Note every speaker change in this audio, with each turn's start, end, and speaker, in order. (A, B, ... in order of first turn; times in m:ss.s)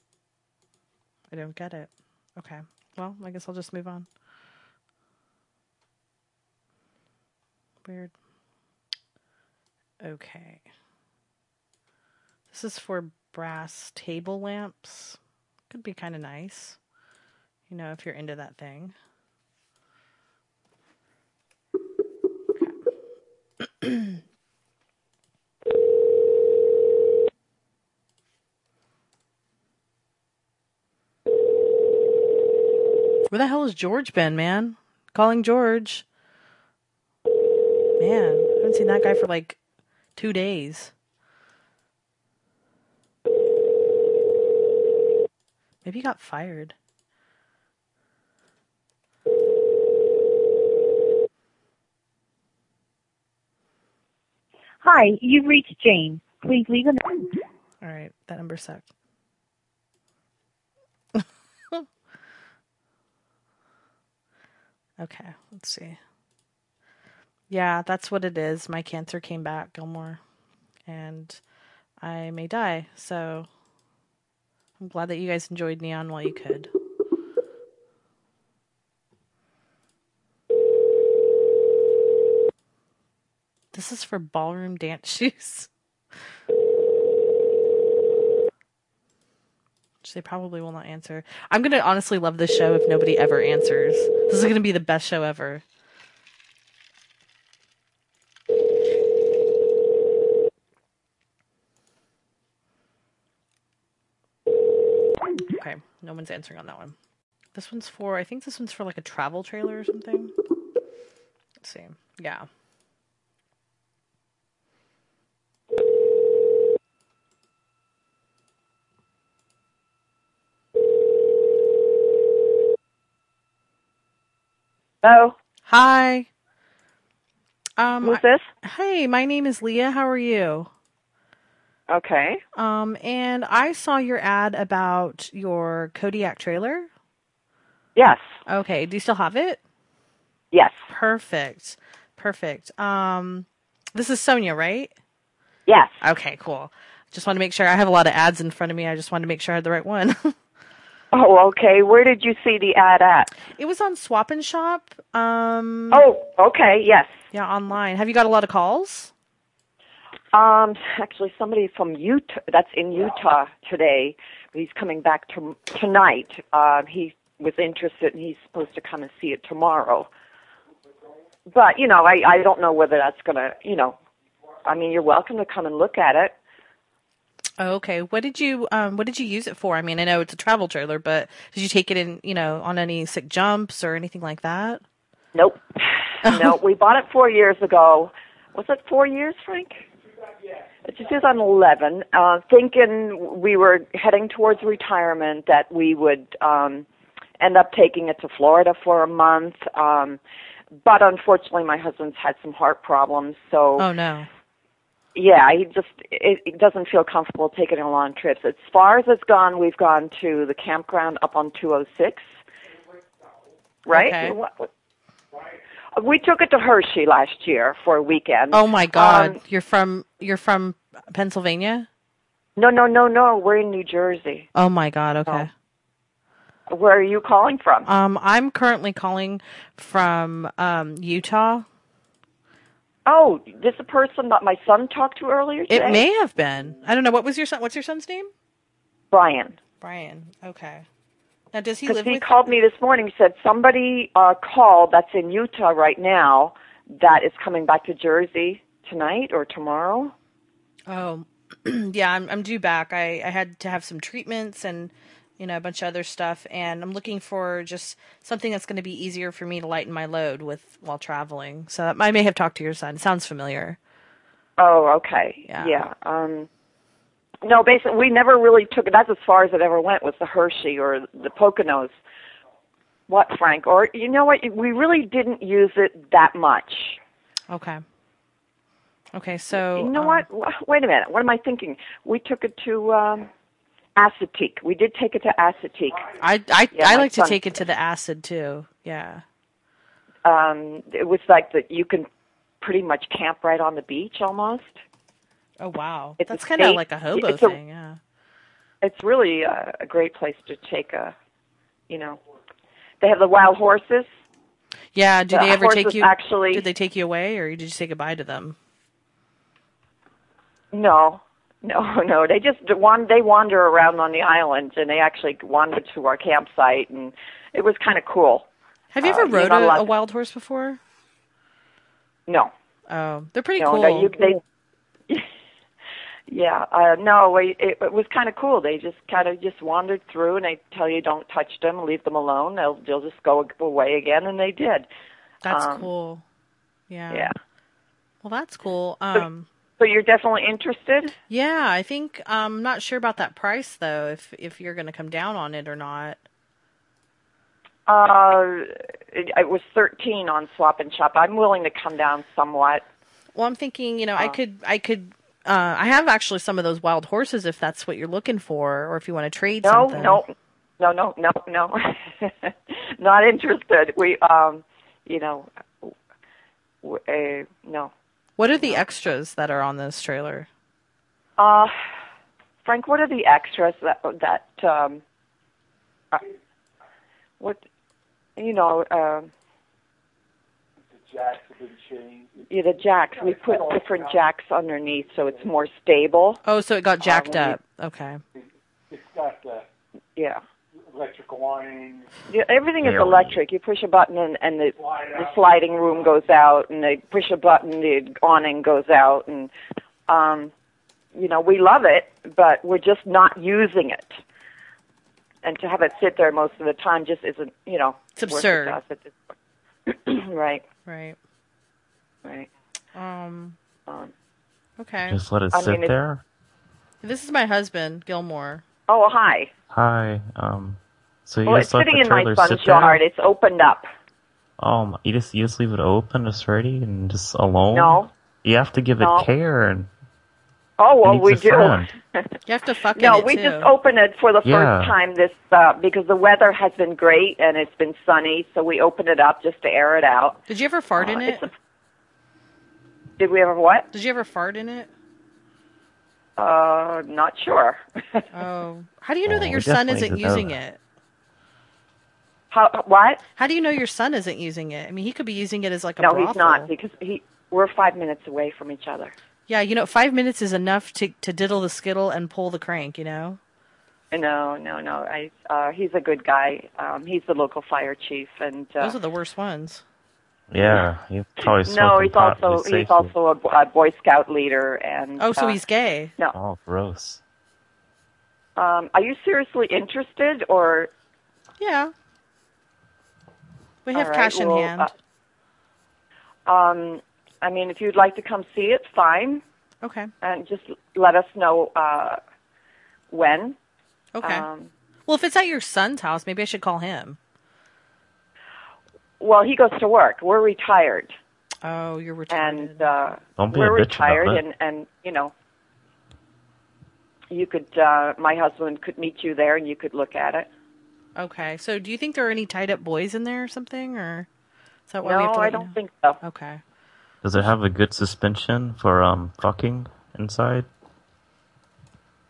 0:01.3-0:04.1 A
0:07.8-0:08.1 A
0:10.0-0:10.6 A
0:12.5-0:15.2 A
0:15.7-0:16.8 A
0:17.7-0:19.0 A
0:23.6-0:24.2 A
0:33.3-0:36.0 A
0:38.0-0:39.6 A
0:40.2-0:40.9 A
0:45.8-0:46.8 A
0:54.8-0:57.4 B
0:57.8-0:58.9 A
1:01.2-1:01.8 A
1:05.0-1:06.0 A
1:07.5-1:10.2 A
1:10.9-1:11.4 A
1:12.0-1:13.5 A
1:14.8-1:16.7 A
1:23.7-1:25.7 A
1:30.0-1:35.6 A
1:45.6-1:47.0 A
1:47.6-1:50.3 A
1:51.6-1:52.5 A
2:05.0-2:05.4 C
2:05.7-2:06.3 A
2:07.8-2:10.7 A
2:08.0-2:08.5 C
2:11.9-2:12.4 C
2:12.6-2:16.9 A
2:18.0-2:18.2 C
2:18.5-2:19.6 A
2:20.5-2:20.8 C
2:20.9-2:24.9 A
2:25.7-2:26.0 C
2:26.0-2:30.4 A
2:31.1-2:33.3 C
2:33.6-2:36.0 A
2:35.9-2:37.1 C
2:37.3-2:39.1 A
2:40.3-2:50.1 C
2:51.5-2:54.0 C
2:54.6-2:56.4 C
2:57.6-3:04.8 A
3:05.4-3:09.9 C
3:06.2-3:06.6 A
3:10.8-3:16.9 C
3:17.4-3:20.2 C
3:20.8-3:23.9 C
3:23.8-3:24.3 A
3:25.1-3:32.2 C
3:33.9-3:34.4 A
3:33.9-3:34.7 C
3:36.0-3:39.4 C
3:38.5-3:41.9 A
3:42.6-3:44.5 C
3:44.6-3:45.5 A
3:46.7-3:47.9 C
3:47.9-3:51.7 A
3:53.1-3:56.0 C
3:55.7-3:58.3 A
3:59.1-3:59.6 C
3:59.8-4:00.8 A
4:01.5-4:02.3 A
4:01.9-4:10.2 C
4:10.9-4:23.8 A
4:24.6-4:26.5 C
4:25.5-4:25.8 A
4:27.4-4:31.9 C
4:33.1-4:37.0 C
4:37.5-4:37.8 A
4:39.1-4:40.3 A
4:39.5-4:43.3 C
4:44.0-4:46.1 C
4:46.2-4:49.2 A
4:46.7-4:47.6 C
4:50.2-4:52.1 C
4:52.6-4:54.8 C
4:55.6-4:58.0 A
4:56.2-4:57.6 C
4:58.8-5:01.2 C
5:01.9-5:02.2 C
5:03.0-5:04.1 C
5:05.0-5:08.6 A
5:05.3-5:06.7 C
5:10.7-5:18.5 C
5:18.9-5:20.8 A
5:19.0-5:19.9 C
5:22.3-5:22.5 C
5:22.9-5:24.1 A
5:23.6-5:24.4 C
5:26.3-5:34.9 C
5:35.4-5:36.2 A
5:35.5-5:35.9 C
5:36.9-5:37.3 A
5:38.2-5:39.5 A
5:39.8-5:41.2 C
5:41.3-5:46.2 A
5:47.9-5:52.8 C
5:53.4-6:00.2 A
5:59.6-6:05.9 C
6:06.8-6:07.9 C
6:08.4-6:10.5 A
6:11.4-6:11.7 C
6:12.6-6:15.0 C
6:18.4-6:19.3 C
6:20.9-6:22.4 D
6:22.5-6:26.4 C
6:23.2-6:24.2 D
6:26.4-6:28.2 A
6:27.2-6:27.6 C
6:28.9-6:29.7 D
6:30.2-6:30.4 C
6:30.9-6:32.1 D
6:32.3-6:39.5 C
6:32.8-6:33.4 E
6:34.8-6:35.9 D
6:40.1-6:40.5 C
6:41.1-6:44.2 C
6:45.4-6:49.2 C
6:48.2-6:48.8 A
6:49.9-6:50.6 C
6:50.9-6:51.2 A
6:52.2-6:52.5 C
6:53.0-6:53.6 A
6:53.9-6:54.1 C
6:54.8-6:55.2 A
6:55.1-6:56.2 E
6:55.5-6:55.9 C
6:57.0-6:58.6 A
6:58.9-6:59.5 C
6:59.7-7:03.0 E
7:01.5-7:03.9 C
7:04.6-7:09.9 E
7:07.7-7:08.1 C
7:09.0-7:09.3 C
7:10.8-7:12.3 C
7:11.0-7:11.9 E
7:12.5-7:13.7 A
7:13.0-7:20.4 C
7:14.4-7:14.9 E
7:20.5-7:21.5 A
7:21.0-7:21.5 C
7:23.2-7:23.9 C
7:23.9-7:24.9 A
7:26.4-7:28.3 C
7:28.3-7:30.8 A
7:29.2-7:30.6 E
7:32.5-7:33.2 C
7:33.4-7:36.7 A
7:36.0-7:39.1 C
7:39.5-7:43.4 A
7:44.1-7:49.0 C
7:48.8-7:49.8 A
7:50.5-7:53.1 E
7:51.5-7:55.6 C
7:55.2-7:56.1 A
7:56.3-7:57.2 E
7:58.6-8:00.9 C
8:01.6-8:01.9 A
8:03.8-8:04.9 A
8:03.9-8:04.9 C
8:06.5-8:09.4 C
8:09.8-8:10.1 A
8:10.2-8:12.2 C
8:13.1-8:13.6 C
8:14.2-8:14.5 A
8:14.2-8:14.7 C
8:15.1-8:17.2 A
8:19.2-8:21.1 C
8:21.6-8:22.9 A
8:22.3-8:25.3 C
8:23.4-8:24.4 E
8:27.3-8:30.5 C
8:31.2-8:34.3 A
8:34.9-8:36.6 A
8:35.0-8:36.2 C
8:37.2-8:40.7 E